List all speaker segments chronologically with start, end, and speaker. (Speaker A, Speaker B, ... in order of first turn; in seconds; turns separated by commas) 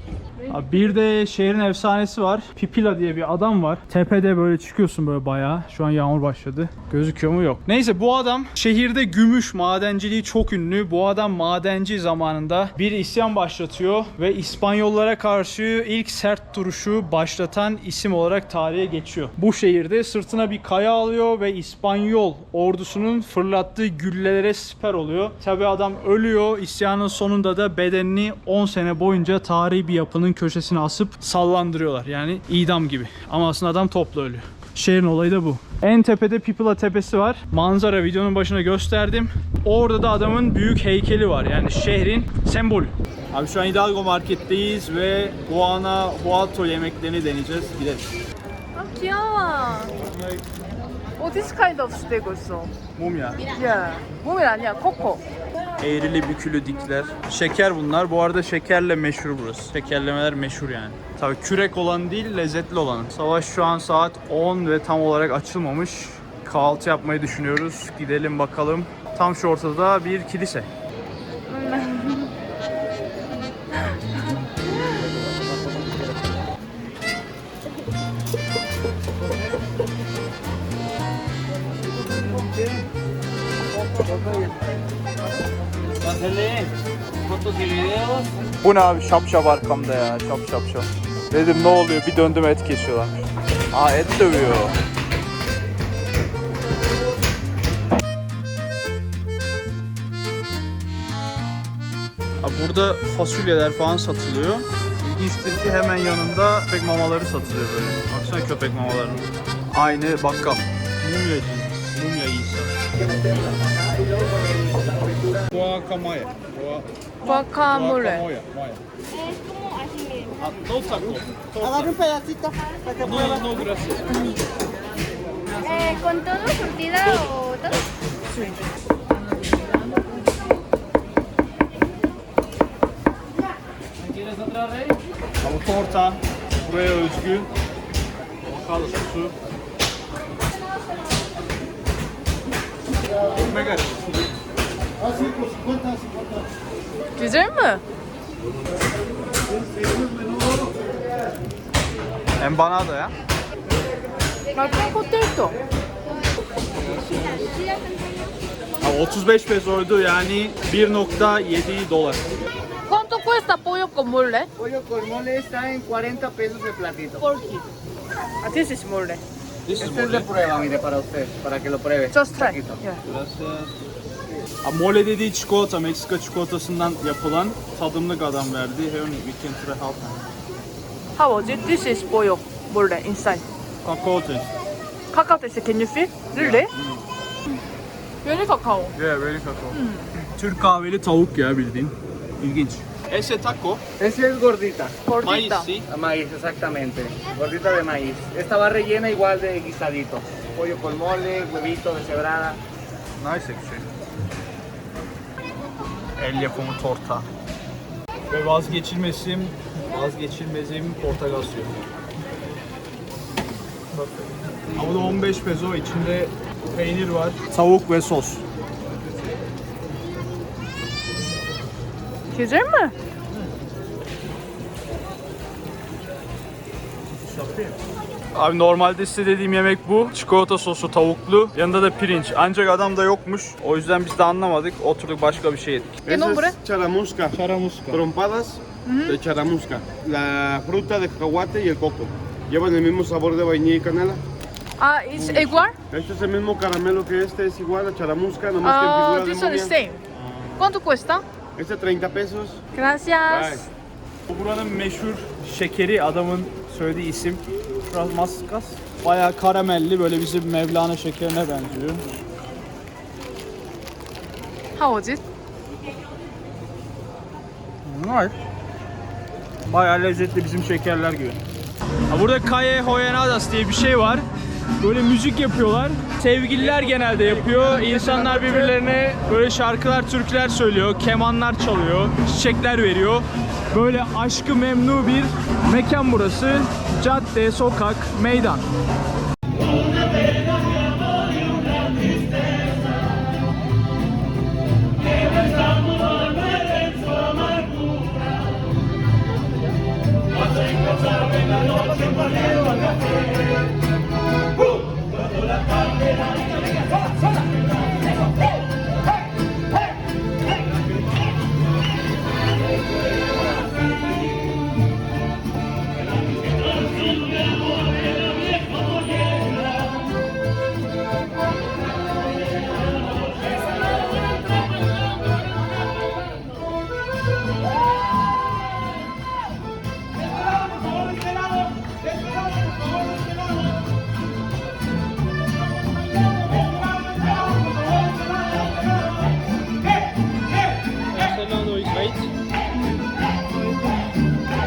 Speaker A: 0.5-48.1, Speaker B: 48.7-49.9, Speaker B: 51.2-52.7, Speaker A: 53.0-53.5, Speaker B: 53.5-55.2, Speaker A: 55.8-70.7, Speaker B: 71.5-72.3, Speaker C: 75.6-75.9, Speaker C: 83.7-84.5, Speaker A: 86.1-86.7, Speaker C: 86.2-86.7, Speaker C: 87.3-88.3, Speaker A: 88.6-93.1, Speaker A: 93.7-94.7, Speaker A: 102.4-112.7, Speaker A: 115.4-118.8, Speaker B: 117.2-118.2, Speaker A: 120.4-122.0, Speaker C: 121.9-122.8, Speaker A: 123.0-124.3, Speaker D: 125.6-127.6, Speaker A: 127.0-128.3, Speaker B: 128.3-128.6, Speaker A: 135.4-137.5, Speaker A: 138.4-139.3, Speaker A: 143.3-144.1, Speaker B: 147.2-147.8, Speaker A: 152.4-153.1, Speaker B: 154.5-155.6, Speaker A: 156.7-157.5, Speaker A: 158.8-162.3, Speaker B: 162.9-164.5, Speaker C: 164.6-167.2, Speaker B: 167.2-167.6, Speaker B: 168.4-169.2, Speaker A: 169.7-170.3, Speaker C: 169.8-172.8, Speaker B: 172.1-173.0, Speaker A: 173.0-173.8, Speaker A: 174.6-180.2, Speaker B: 181.2-183.4, Speaker A: 183.8-184.5, Speaker B: 185.1-186.7, Speaker A: 186.3-187.0, Speaker B: 188.2-188.9, Speaker A: 188.9-193.8, Speaker B: 189.7-190.1, Speaker C: 194.0-194.9, Speaker B: 195.1-195.7, Speaker A: 195.2-195.9, Speaker C: 195.9-202.6, Speaker A: 203.2-203.9, Speaker A: 206.2-207.3, Speaker A: 208.3-211.8, Speaker A: 213.9-218.4, Speaker B: 222.3-222.9, Speaker A: 227.1-227.8, Speaker A: 228.3-236.0, Speaker E: 236.1-237.4, Speaker B: 236.1-236.6, Speaker A: 237.3-238.0, Speaker E: 237.9-244.2, Speaker B: 238.8-239.2, Speaker B: 244.8-245.8, Speaker A: 245.1-245.7, Speaker E: 245.9-249.7, Speaker B: 248.6-250.0, Speaker A: 250.2-250.6, Speaker B: 250.6-251.2, Speaker E: 251.6-252.6, Speaker B: 252.7-253.7, Speaker E: 253.3-253.7, Speaker A: 254.3-262.2, Speaker B: 264.8-265.2, Speaker A: 267.8-268.4, Speaker A: 269.7-271.4, Speaker A: 272.1-274.2, Speaker A: 274.8-288.6, Speaker A: 341.1-342.3, Speaker B: 343.5-344.1